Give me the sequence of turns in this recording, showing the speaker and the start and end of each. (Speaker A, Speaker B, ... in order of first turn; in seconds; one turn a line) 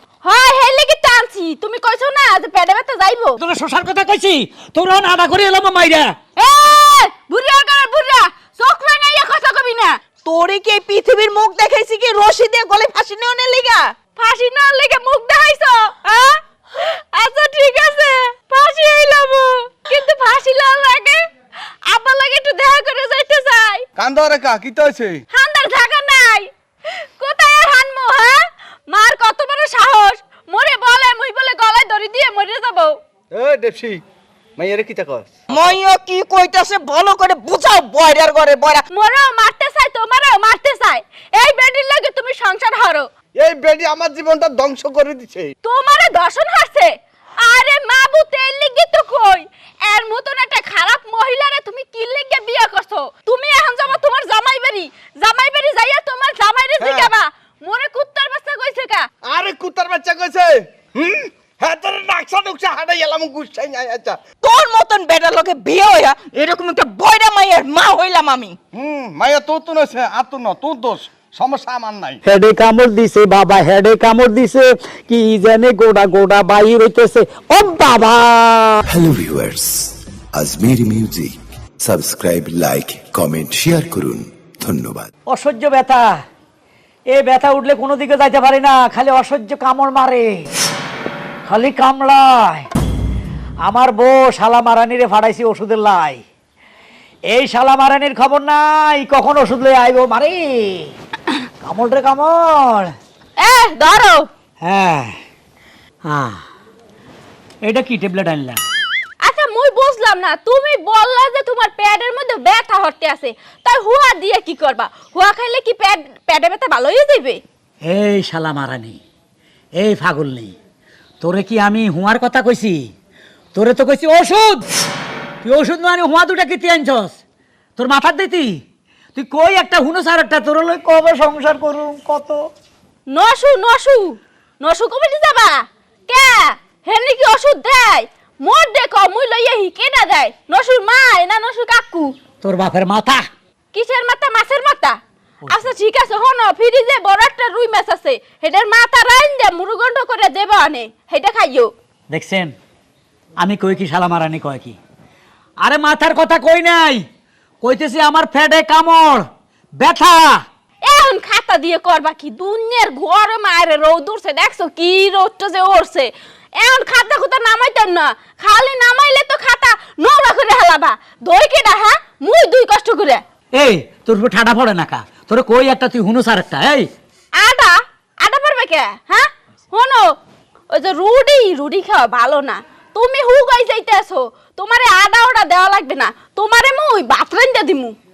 Speaker A: 0.2-3.4
Speaker B: 3.4-6.2
Speaker A: 6.4-10.0
Speaker C: 10.2-13.9
Speaker A: 14.2-21.2
Speaker A: 21.9-23.8
Speaker D: 24.0-25.2
Speaker A: 25.3-33.0
Speaker D: 33.3-34.0
Speaker D: 34.6-35.3
Speaker C: 35.5-38.8
Speaker A: 38.9-43.1
Speaker D: 43.4-45.5
Speaker A: 45.6-46.9
Speaker A: 47.4-59.1
Speaker D: 56.8-57.1
Speaker D: 59.3-64.2
Speaker C: 64.4-68.6
Speaker D: 68.7-72.2
Speaker B: 72.2-78.8
Speaker E: 78.8-85.1
Speaker B: 85.3-86.1
Speaker B: 87.1-90.5
Speaker B: 91.5-92.7
Speaker B: 93.6-96.2
Speaker B: 97.3-100.9
Speaker B: 101.6-102.9
Speaker A: 103.4-104.3
Speaker B: 104.6-105.2
Speaker B: 106.1-106.4
Speaker B: 107.6-108.6
Speaker A: 109.2-117.4
Speaker B: 117.8-119.0
Speaker B: 119.8-120.5
Speaker B: 121.2-122.9
Speaker B: 123.5-124.6
Speaker B: 125.4-127.2
Speaker B: 127.8-128.6
Speaker B: 129.2-132.4
Speaker A: 133.1-142.1
Speaker B: 142.4-143.3
Speaker A: 143.7-145.0
Speaker A: 145.5-151.7
Speaker B: 152.1-152.5
Speaker B: 153.4-154.8
Speaker B: 155.6-157.0
Speaker B: 157.6-160.4
Speaker A: 160.8-173.2
Speaker B: 173.5-176.9
Speaker A: 177.4-180.1
Speaker A: 180.7-187.9